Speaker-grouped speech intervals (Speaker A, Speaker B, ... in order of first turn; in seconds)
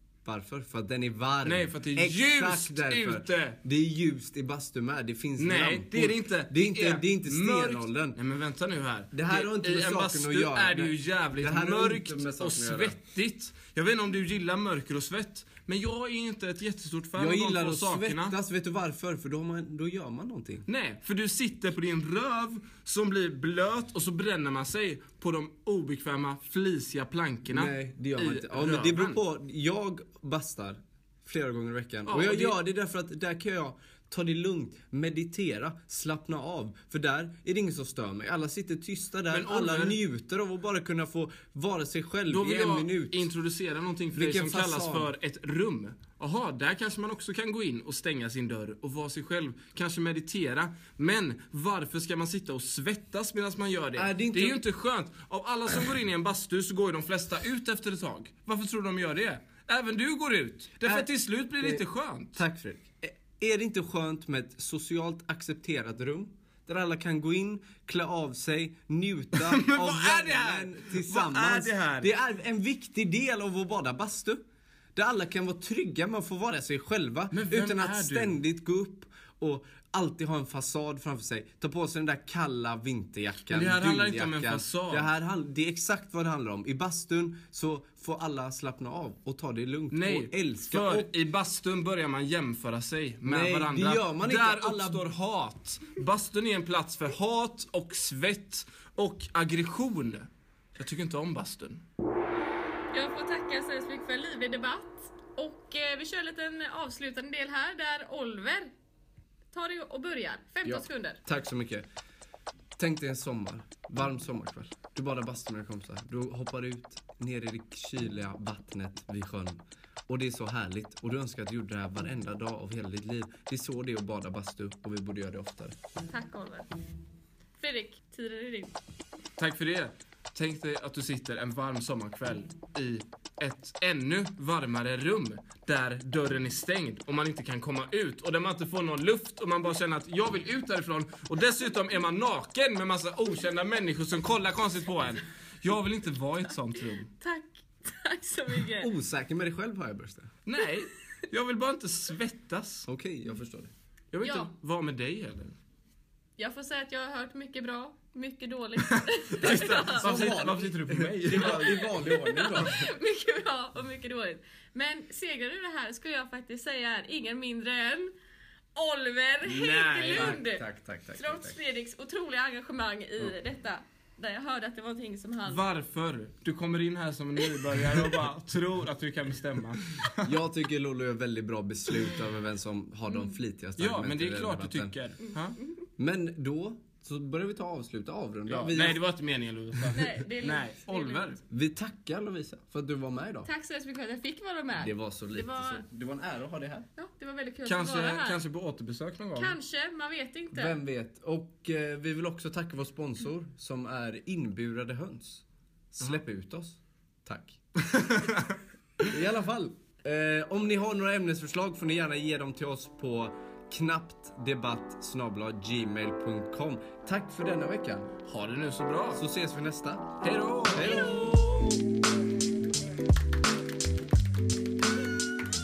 Speaker A: 0.2-8.2, 9.1-13.0, 17.2-20.6, 27.4-43.3, 44.1-45.1, 54.0-54.6, 60.8-61.8, 62.3-74.4, 75.0-91.1, 93.2-95.0, 110.6-111.8, 112.8-125.7, 148.8-150.3, 152.9-153.7, 159.4-162.9, 170.1-171.6, 180.2-184.9, 186.0-189.0, 191.5-193.5, 194.8-196.9, 200.5-207.6, 209.0-218.1, 219.1-220.2, 220.7-221.8
Speaker B: 1.4-3.6, 5.4-18.3, 20.7-29.2, 32.0-32.5, 39.3-40.0, 42.3-62.4, 69.3-72.1, 77.3-78.4, 83.5-85.1, 89.9-101.8, 129.4-147.1, 150.4-152.9, 154.1-155.6, 159.4-161.9, 169.4-170.4, 175.5-180.3, 183.8-185.6, 188.5-191.4, 197.7-199.6, 207.9-208.5, 218.2-219.2, 220.2-221.3
Speaker C: 102.9-108.7, 109.5-111.2, 126.1-126.7, 127.6-128.8, 147.1-148.9, 154.2-154.5, 156.4-160.3, 161.4-168.1, 168.7-175.6, 189.9-191.4, 193.4-195.8, 196.9-198.4, 199.3-200.8